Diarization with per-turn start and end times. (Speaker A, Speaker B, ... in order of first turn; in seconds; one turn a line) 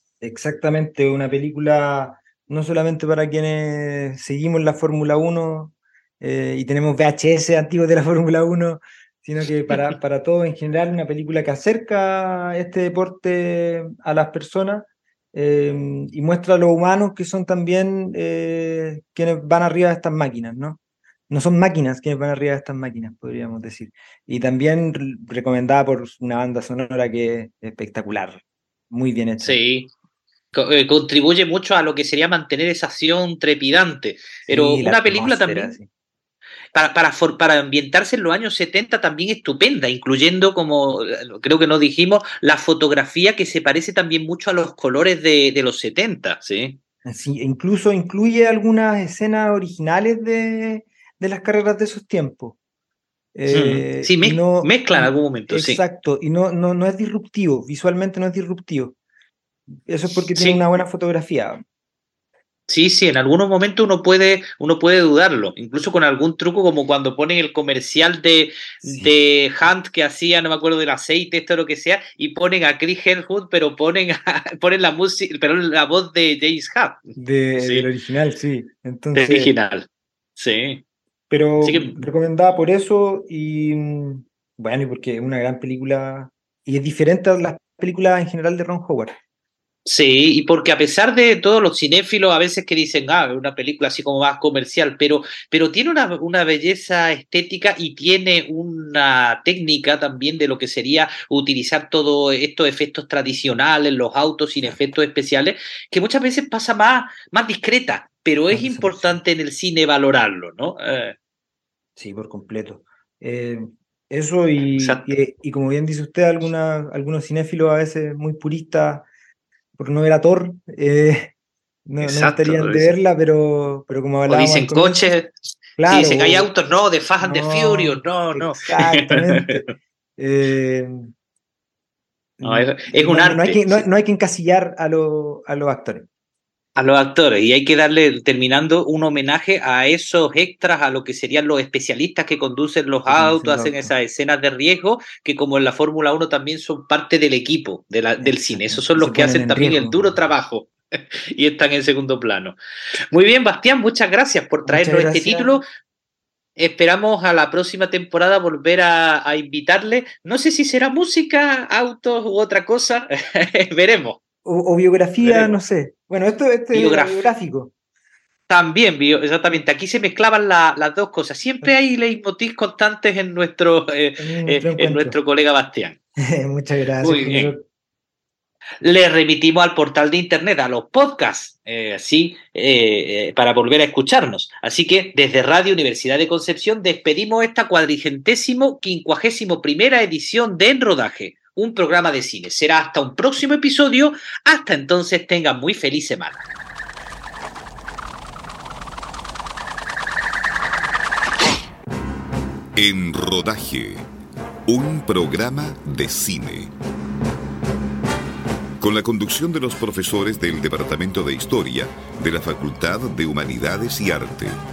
Speaker A: 0.2-29.6
Speaker B: 29.4-29.9
Speaker B: 30.5-35.7
Speaker A: 34.5-35.9
Speaker B: 36.7-46.8
Speaker A: 47.0-52.6
Speaker A: 53.4-59.0
Speaker B: 53.5-55.8
Speaker A: 59.9-61.6
Speaker B: 60.4-60.6
Speaker B: 62.7-77.9
Speaker A: 68.8-69.1
Speaker A: 77.2-79.5
Speaker B: 79.1-80.8
Speaker A: 81.3-89.2
Speaker B: 81.6-82.0
Speaker B: 89.9-111.2
Speaker A: 108.5-109.2
Speaker A: 112.0-119.1
Speaker B: 114.8-115.1
Speaker A: 119.8-121.3
Speaker A: 121.9-125.1
Speaker B: 122.0-123.0
Speaker B: 124.3-125.3
Speaker A: 125.8-126.5
Speaker B: 125.9-129.7
Speaker A: 127.2-129.6
Speaker A: 130.2-131.1
Speaker A: 132.4-136.1
Speaker B: 132.4-133.8
Speaker B: 136.8-152.6
Speaker A: 143.1-143.9
Speaker A: 148.2-150.2
Speaker B: 153.1-155.6
Speaker A: 154.7-155.6
Speaker B: 156.6-164.2
Speaker A: 164.4-167.7
Speaker B: 165.2-165.6
Speaker B: 166.7-167.3
Speaker B: 168.5-176.0
Speaker A: 174.2-175.2
Speaker A: 176.2-177.6
Speaker B: 177.0-177.5
Speaker B: 178.8-196.4
Speaker C: 202.8-204.0
Speaker C: 204.7-206.7
Speaker C: 208.8-214.6